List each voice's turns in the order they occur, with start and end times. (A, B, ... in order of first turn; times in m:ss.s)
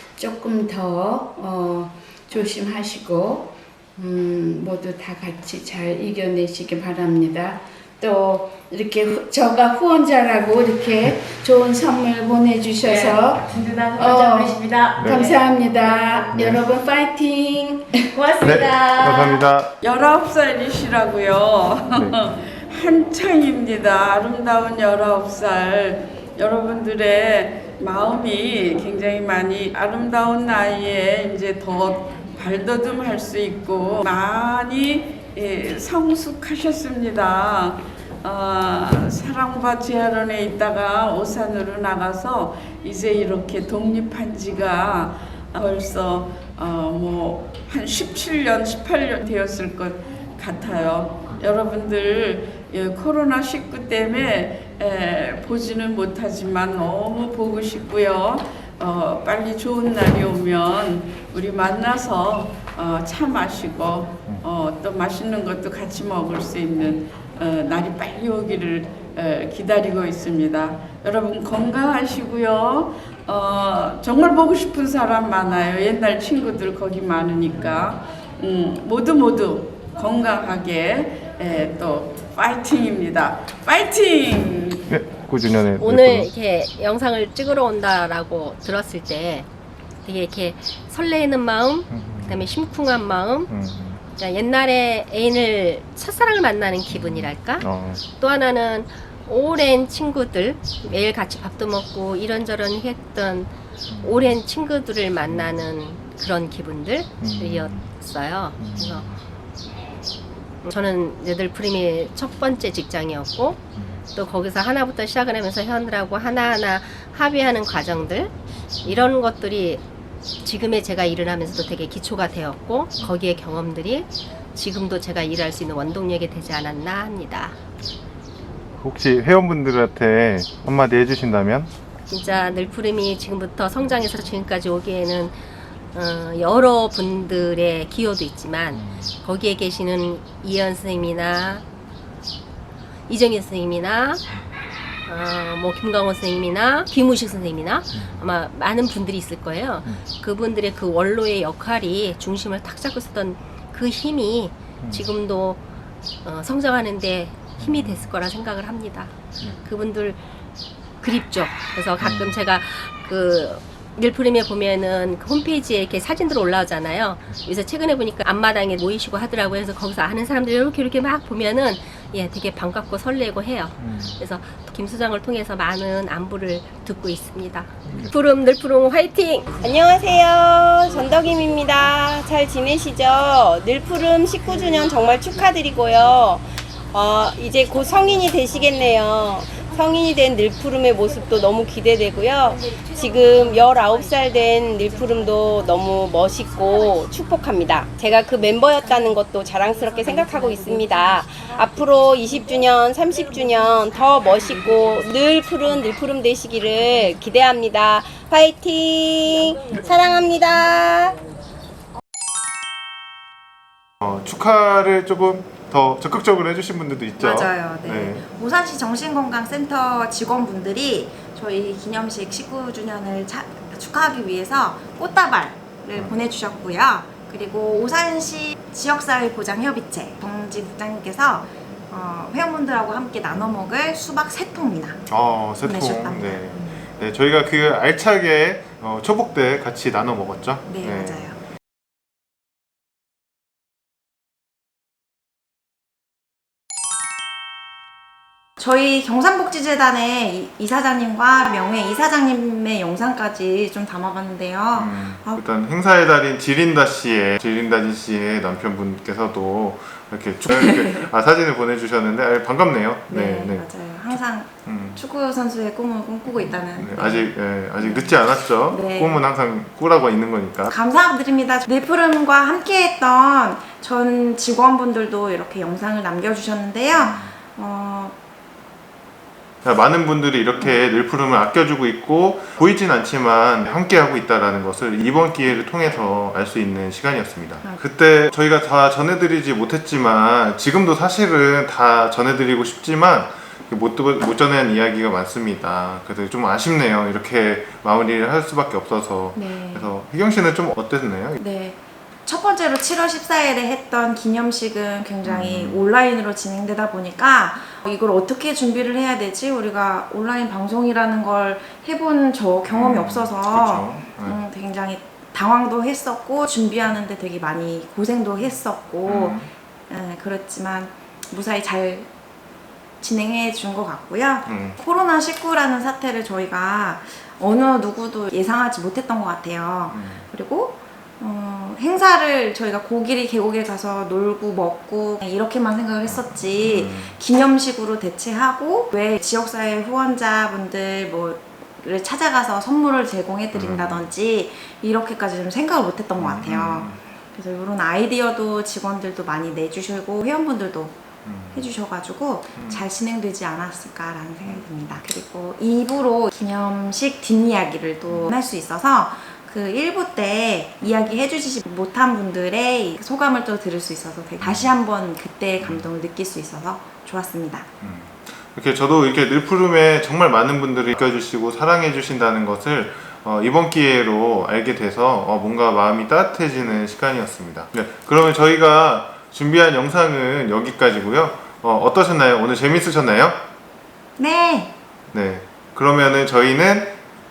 0:00.2-0:18.3 A
0:12.8-0:15.4 B
0:15.0-0:15.3 C
0:16.3-0:16.6 C
0:18.1-0:19.4 B
0:18.4-0:19.7 C
0:19.8-1:24.9 D
1:17.6-1:18.0 C
1:24.9-1:26.3 C
1:25.7-1:29.4 E
1:30.0-1:33.5 E
1:31.9-1:32.4 C
1:33.5-1:34.0 C
1:34.2-1:49.1 E
1:36.9-1:38.0 C
1:43.9-1:44.2 C
1:45.3-1:45.6 C
1:47.2-1:47.9 C
1:48.6-1:49.2 C
1:50.6-1:53.6 E
1:53.8-1:54.0 C
1:54.1-1:59.8 E
2:00.4-2:07.6 E
2:08.8-2:11.7 C
2:12.1-2:15.4 E
2:15.9-2:21.6 E
2:18.8-2:19.1 C
2:23.1-2:24.3 E
2:25.0-2:35.6 E
2:36.2-2:40.2 E
2:37.6-2:38.1 C
2:41.0-2:59.6 E
2:42.0-2:42.4 C
2:53.8-2:54.1 C
2:57.9-2:58.1 C
2:59.6-3:31.2 F
3:34.0-3:38.2 C
3:37.2-3:55.0 G
3:55.1-4:01.3 C
3:55.6-3:56.8 G
4:00.6-4:01.4 G
4:08.6-4:15.4 G
4:14.7-4:25.0 C
4:20.5-4:21.0 G
4:23.1-4:29.2 G
4:26.3-4:30.7 C
4:30.7-4:38.1 G
4:36.9-4:37.3 C
4:39.6-5:01.4 C
4:59.3-4:59.9 G
5:01.4-5:22.1 G
5:05.2-5:05.8 C
5:12.7-5:14.4 C
5:19.0-5:19.5 C
5:23.0-5:51.0 G
5:24.4-5:24.8 C
5:29.9-5:30.2 C
5:36.0-5:37.2 C
5:43.5-5:44.1 C
5:46.2-5:47.0 C
5:51.2-5:51.7 C
5:51.5-6:07.7 G
5:52.6-5:52.8 C
5:54.4-5:54.8 C
5:58.1-5:58.3 C
6:04.4-6:04.7 C
6:05.6-6:05.9 C
6:07.8-6:23.4 C
6:24.2-6:24.7 G
6:25.1-6:27.0 C